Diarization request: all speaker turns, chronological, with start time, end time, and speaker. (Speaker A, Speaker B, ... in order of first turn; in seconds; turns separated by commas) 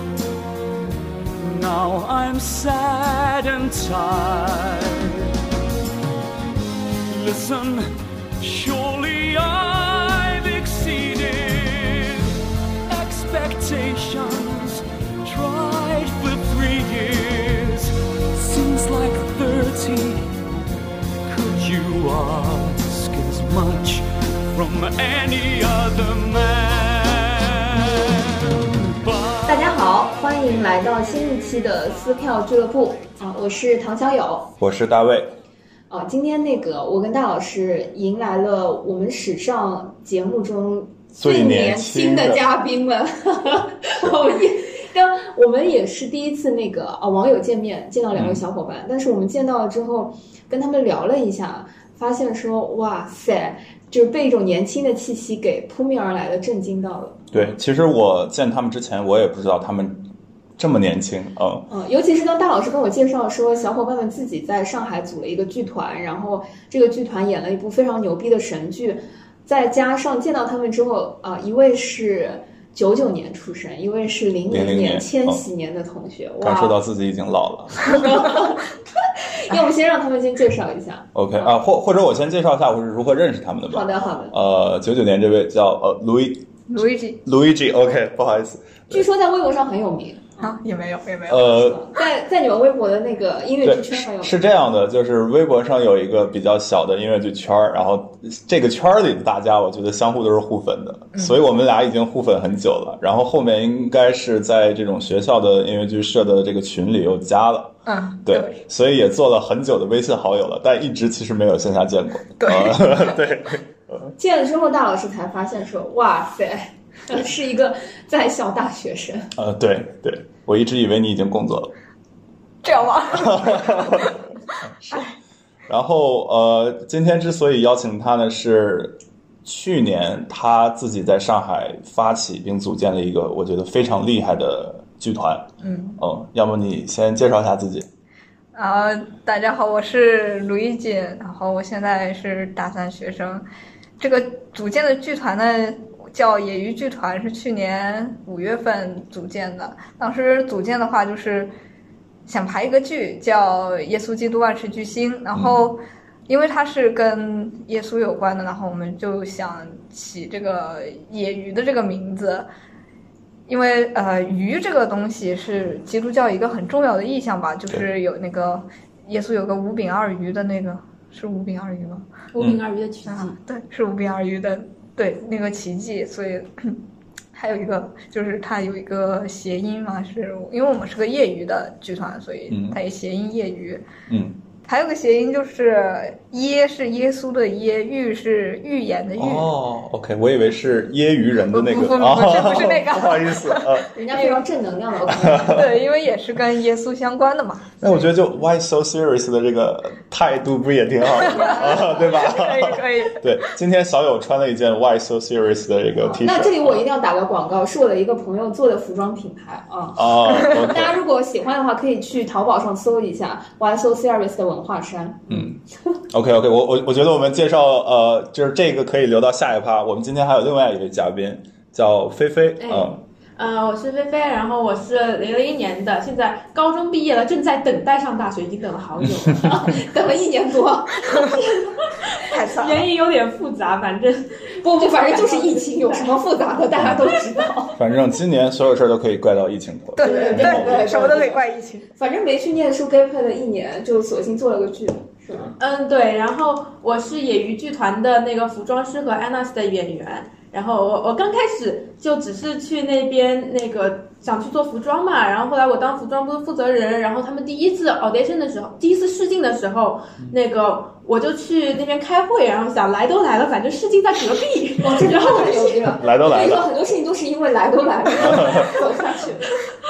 Speaker A: 1.3-5.3, Speaker A: 7.1-12.3, Speaker A: 12.9-20.3, Speaker A: 21.2-29.6, Speaker B: 29.4-34.5, Speaker C: 34.6-35.3, Speaker B: 35.9-57.5, Speaker C: 41.2-42.4, Speaker C: 48.1-48.4, Speaker C: 57.3-61.7, Speaker B: 61.7-76.8, Speaker C: 74.5-75.4, Speaker C: 76.4-78.3, Speaker B: 77.8-81.5, Speaker C: 81.1-86.5, Speaker B: 83.7-84.3, Speaker D: 86.7-87.2, Speaker C: 87.2-89.0, Speaker B: 88.9-90.5, Speaker D: 90.4-91.5, Speaker C: 91.3-91.8, Speaker B: 91.4-94.4, Speaker C: 93.6-107.7, Speaker D: 107.8-108.6, Speaker C: 108.2-114.1, Speaker D: 112.4-112.9, Speaker B: 114.2-119.3, Speaker C: 119.4-121.7, Speaker D: 122.6-124.2, Speaker C: 123.1-124.2, Speaker C: 124.8-125.1, Speaker C: 125.7-137.9, Speaker D: 135.6-136.0, Speaker D: 138.5-143.4, Speaker D: 144.0-151.5, Speaker D: 152.2-162.5, Speaker C: 155.3-155.7, Speaker D: 163.5-172.1, Speaker E: 172.3-173.4, Speaker D: 173.1-176.8, Speaker D: 177.3-183.8, Speaker C: 182.5-182.8, Speaker C: 184.1-184.4, Speaker D: 184.7-189.5, Speaker C: 189.2-193.9, Speaker D: 191.5-194.4, Speaker B: 193.9-195.7, Speaker C: 195.2-195.7, Speaker D: 195.4-198.1, Speaker C: 197.8-206.8, Speaker D: 201.1-203.2, Speaker B: 201.3-202.1, Speaker B: 205.9-215.5, Speaker C: 210.0-210.9, Speaker C: 215.3-223.0, Speaker E: 222.6-229.9, Speaker B: 229.3-231.2, Speaker E: 231.1-236.2, Speaker D: 232.2-232.8, Speaker B: 234.6-237.8, Speaker C: 237.8-241.0, Speaker D: 240.0-241.8, Speaker E: 240.0-240.8, Speaker B: 240.0-245.5, Speaker E: 245.6-265.8, Speaker B: 264.8-269.6, Speaker C: 265.9-266.7, Speaker C: 268.2-268.7